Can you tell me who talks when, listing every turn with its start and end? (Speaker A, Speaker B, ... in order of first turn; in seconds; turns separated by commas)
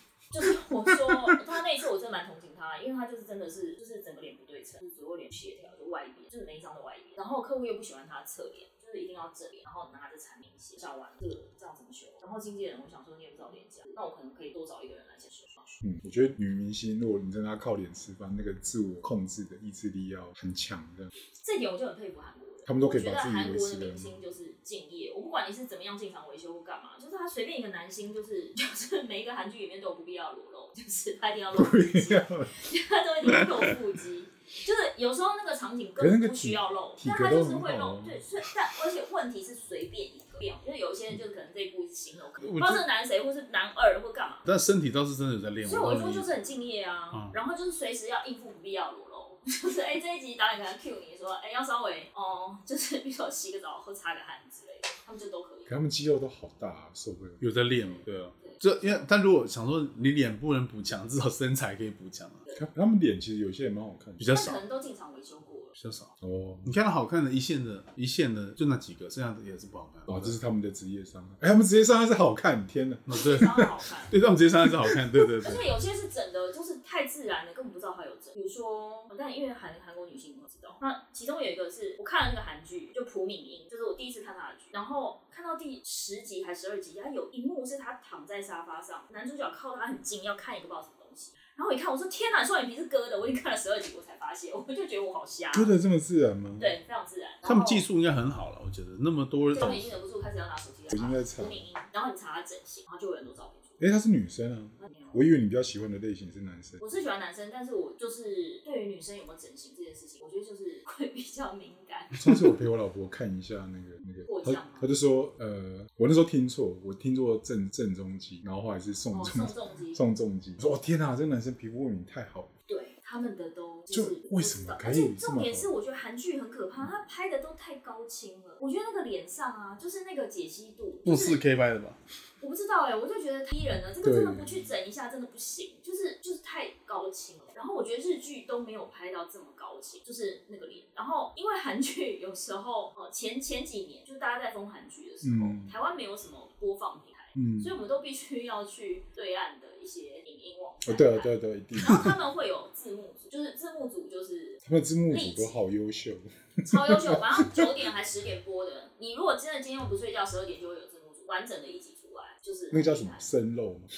Speaker A: 0.3-15.8, Speaker B: 0.4-1.4, Speaker B: 15.8-21.1, Speaker A: 21.4-44.5, Speaker B: 22.7-24.2, Speaker B: 31.5-32.7, Speaker B: 36.0-38.2, Speaker C: 42.4-42.8, Speaker C: 44.5-46.3, Speaker A: 45.6-55.7, Speaker B: 55.7-57.4, Speaker C: 57.4-62.4, Speaker A: 57.9-59.0, Speaker B: 62.5-64.3, Speaker C: 64.2-64.6, Speaker A: 64.3-65.8, Speaker C: 65.8-66.1, Speaker B: 66.2-66.7, Speaker C: 66.7-70.4, Speaker B: 70.1-73.7, Speaker C: 73.1-75.7, Speaker A: 73.1-74.2, Speaker A: 75.4-95.7, Speaker B: 95.5-96.7, Speaker A: 96.6-97.8, Speaker C: 97.4-99.9, Speaker A: 99.5-103.8, Speaker B: 100.9-101.6, Speaker B: 103.8-106.8, Speaker A: 104.8-105.2, Speaker A: 106.8-112.3, Speaker B: 112.1-122.5, Speaker A: 114.2-114.9, Speaker A: 119.1-120.0, Speaker A: 122.7-131.4, Speaker B: 123.9-125.7, Speaker C: 131.1-132.0, Speaker A: 132.4-155.6, Speaker B: 134.0-134.7, Speaker B: 145.2-145.7, Speaker B: 147.4-147.7, Speaker B: 150.9-152.2, Speaker B: 154.6-157.7, Speaker A: 156.7-163.2, Speaker B: 162.7-163.9